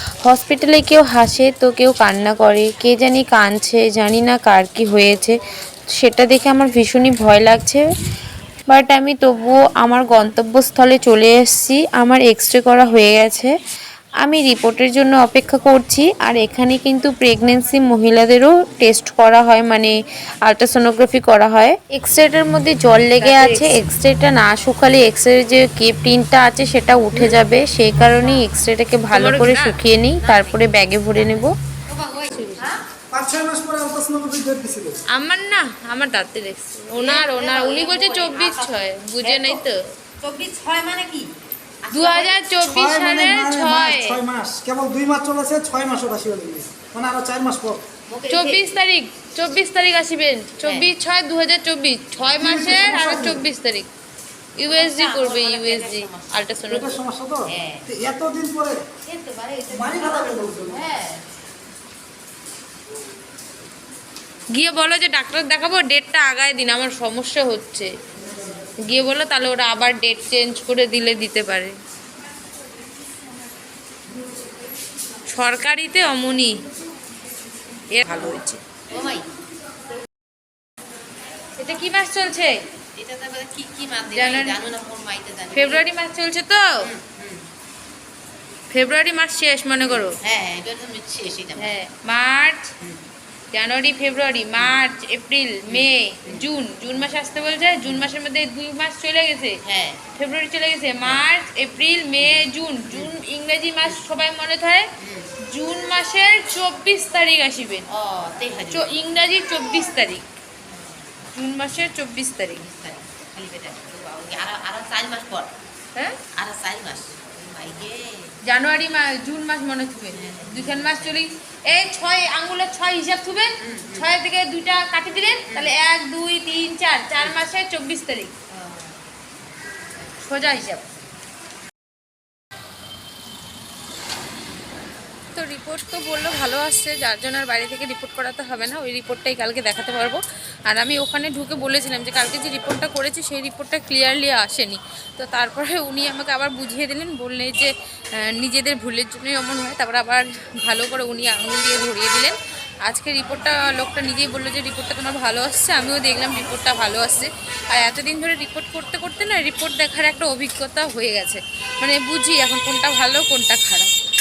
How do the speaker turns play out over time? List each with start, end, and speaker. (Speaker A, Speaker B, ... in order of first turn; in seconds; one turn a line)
Speaker A: 0.2-5.3
Speaker A: 6.0-7.8
Speaker A: 8.7-13.5
Speaker A: 14.2-31.6
Speaker B: 23.2-23.8
Speaker C: 27.1-27.4
Speaker D: 28.1-28.4
Speaker B: 29.1-29.8
Speaker D: 30.2-32.9
Speaker B: 32.3-32.7
Speaker C: 33.1-35.0
Speaker B: 35.1-39.8
Speaker D: 36.9-39.6
Speaker D: 40.2-42.5
Speaker B: 41.9-44.2
Speaker C: 42.6-47.8
Speaker D: 48.1-48.8
Speaker B: 48.3-53.9
Speaker D: 50.6-50.9
Speaker C: 52.3-53.5
Speaker B: 54.6-57.0
Speaker D: 54.7-56.6
Speaker C: 56.7-58.8
Speaker D: 57.5-57.9
Speaker D: 59.0-61.2
Speaker C: 59.7-60.9
Speaker B: 64.5-67.9
Speaker B: 68.8-71.7
Speaker B: 75.3-76.6
Speaker B: 77.9-78.6
Speaker D: 78.9-79.3
Speaker B: 81.6-82.7
Speaker D: 82.9-85.9
Speaker B: 84.1-84.7
Speaker B: 85.5-86.9
Speaker D: 86.8-87.5
Speaker B: 88.7-90.2
Speaker D: 89.8-91.8
Speaker B: 91.5-92.7
Speaker B: 93.5-99.6
Speaker D: 95.7-96.5
Speaker D: 97.8-98.1
Speaker D: 99.6-100.1
Speaker B: 100.1-104.9
Speaker D: 101.0-101.2
Speaker D: 102.2-103.1
Speaker D: 105.0-105.3
Speaker B: 105.4-107.9
Speaker D: 107.9-109.0
Speaker B: 108.7-110.2
Speaker D: 110.6-111.2
Speaker B: 111.3-112.7
Speaker D: 112.5-115.5
Speaker D: 116.3-118.4
Speaker B: 118.4-128.3
Speaker D: 120.1-121.9
Speaker D: 123.6-124.1
Speaker D: 125.5-125.7
Speaker D: 128.5-129.0
Speaker D: 129.9-130.6
Speaker B: 130.2-130.9
Speaker B: 135.3-163.9